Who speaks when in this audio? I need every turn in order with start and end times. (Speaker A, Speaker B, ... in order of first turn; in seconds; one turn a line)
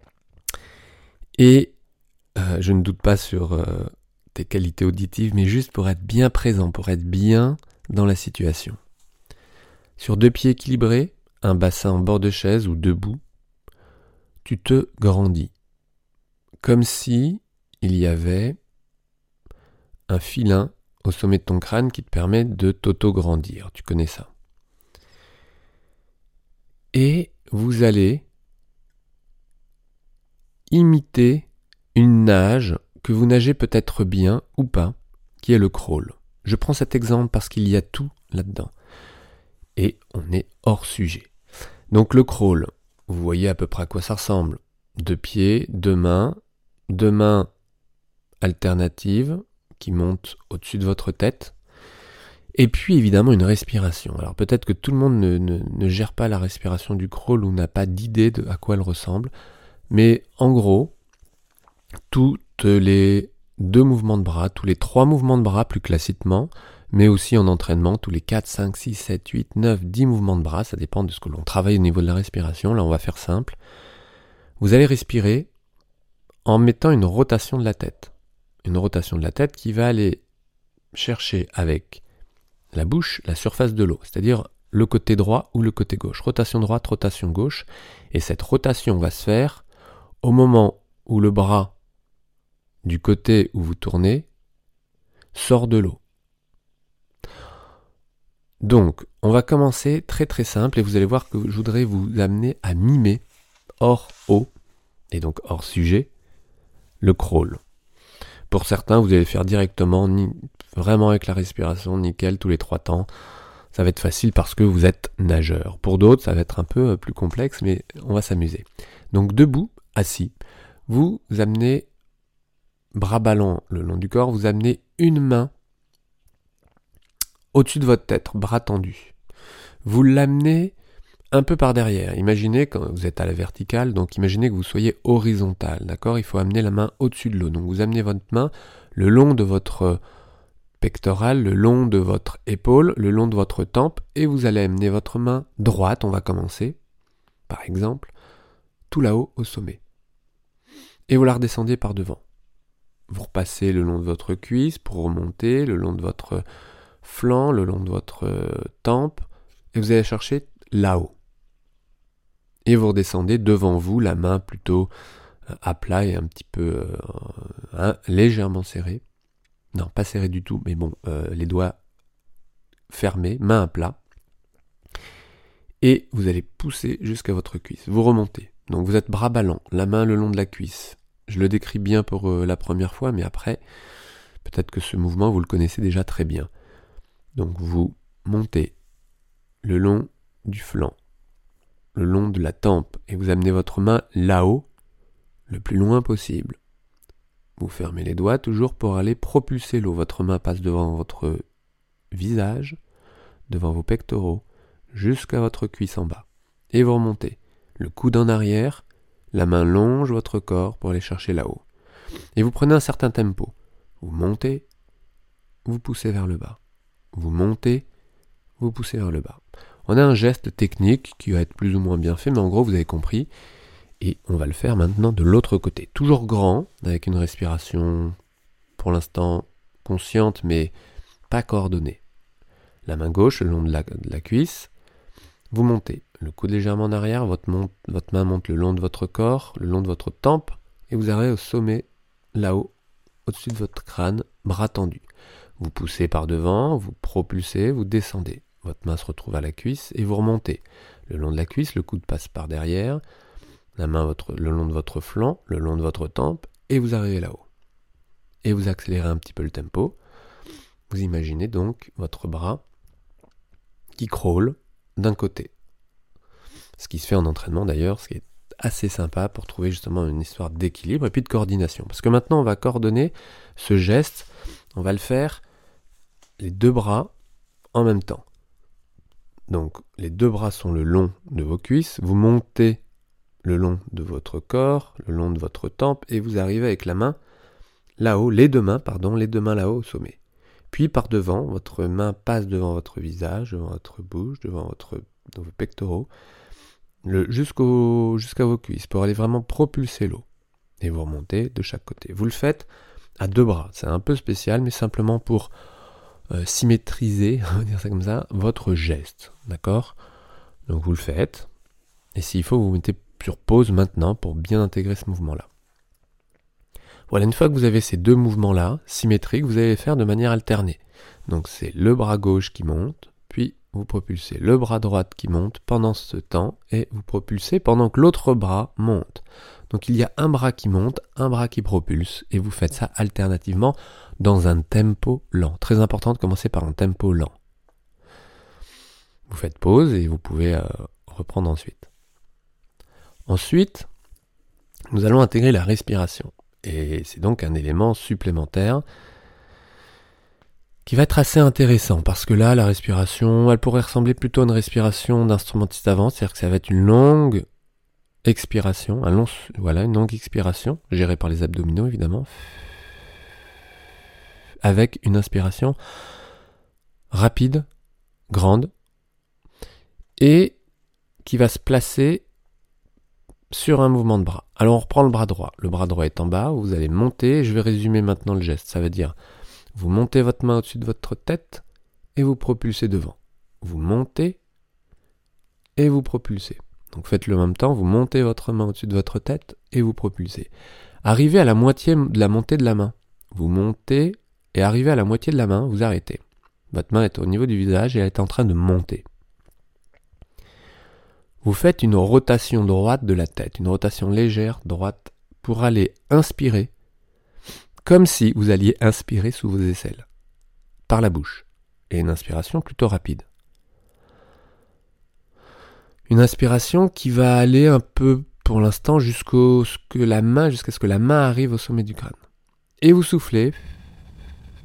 Speaker A: 1.4-1.7
Speaker A: 2.4-8.8
Speaker A: 10.0-13.2
Speaker A: 14.4-15.5
Speaker A: 16.6-18.6
Speaker A: 20.1-24.3
Speaker A: 26.9-28.2
Speaker A: 30.7-38.7
Speaker A: 39.8-41.3
Speaker A: 41.9-46.4
Speaker A: 46.9-47.5
Speaker A: 48.4-51.5
Speaker A: 52.5-59.3
Speaker A: 59.9-60.9
Speaker A: 62.1-73.6
Speaker A: 74.6-75.5
Speaker A: 76.4-78.1
Speaker A: 78.6-80.2
Speaker A: 80.9-82.0
Speaker A: 82.7-89.6
Speaker A: 90.2-91.7
Speaker A: 92.8-94.3
Speaker A: 95.3-96.0
Speaker A: 98.6-103.2
Speaker A: 103.8-104.5
Speaker A: 105.1-106.1
Speaker A: 107.0-107.6
Speaker A: 108.5-113.1
Speaker A: 113.7-120.3
Speaker A: 120.9-121.9
Speaker A: 122.9-125.5
Speaker A: 127.5-129.1
Speaker A: 129.8-130.7
Speaker A: 131.3-140.0
Speaker A: 140.8-146.8
Speaker A: 147.5-148.1
Speaker A: 148.9-149.8
Speaker A: 151.1-152.2
Speaker A: 153.1-156.4
Speaker A: 157.0-161.2
Speaker A: 162.7-164.9
Speaker A: 165.6-169.0
Speaker A: 169.7-171.8
Speaker A: 172.9-174.0
Speaker A: 175.8-183.6
Speaker A: 184.4-186.5
Speaker A: 187.4-188.7
Speaker A: 189.6-190.9
Speaker A: 191.9-194.7
Speaker A: 195.5-196.6
Speaker A: 197.6-201.4
Speaker A: 202.1-202.8
Speaker A: 203.5-211.6
Speaker A: 212.3-214.7
Speaker A: 215.7-216.6
Speaker A: 217.1-217.8
Speaker A: 218.6-223.3
Speaker A: 224.0-228.2
Speaker A: 228.8-230.7
Speaker A: 231.3-232.0
Speaker A: 232.8-234.7
Speaker A: 235.5-242.7
Speaker A: 243.2-245.1
Speaker A: 245.6-253.0
Speaker A: 253.8-257.5
Speaker A: 258.4-259.9
Speaker A: 260.9-262.6
Speaker A: 263.9-265.5
Speaker A: 266.8-275.4
Speaker A: 276.4-277.1
Speaker A: 277.7-278.2
Speaker A: 279.5-282.8
Speaker A: 283.4-287.2
Speaker A: 288.0-290.2
Speaker A: 290.7-296.1
Speaker A: 297.0-300.2
Speaker A: 300.8-302.7
Speaker A: 303.2-305.5
Speaker A: 306.3-310.0
Speaker A: 310.7-311.5
Speaker A: 312.1-315.5
Speaker A: 317.1-337.4
Speaker A: 339.3-341.9
Speaker A: 343.3-343.9
Speaker A: 344.9-348.8
Speaker A: 350.9-357.4
Speaker A: 358.2-362.7
Speaker A: 364.6-365.8
Speaker A: 367.1-367.7
Speaker A: 368.3-368.7
Speaker A: 370.2-370.6
Speaker A: 371.2-372.2
Speaker A: 373.5-379.1
Speaker A: 379.7-381.6
Speaker A: 382.1-384.4
Speaker A: 385.8-390.5
Speaker A: 391.0-396.2
Speaker A: 396.7-399.0
Speaker A: 401.4-406.7
Speaker A: 407.8-410.1
Speaker A: 410.9-413.2
Speaker A: 416.1-422.2
Speaker A: 422.8-423.6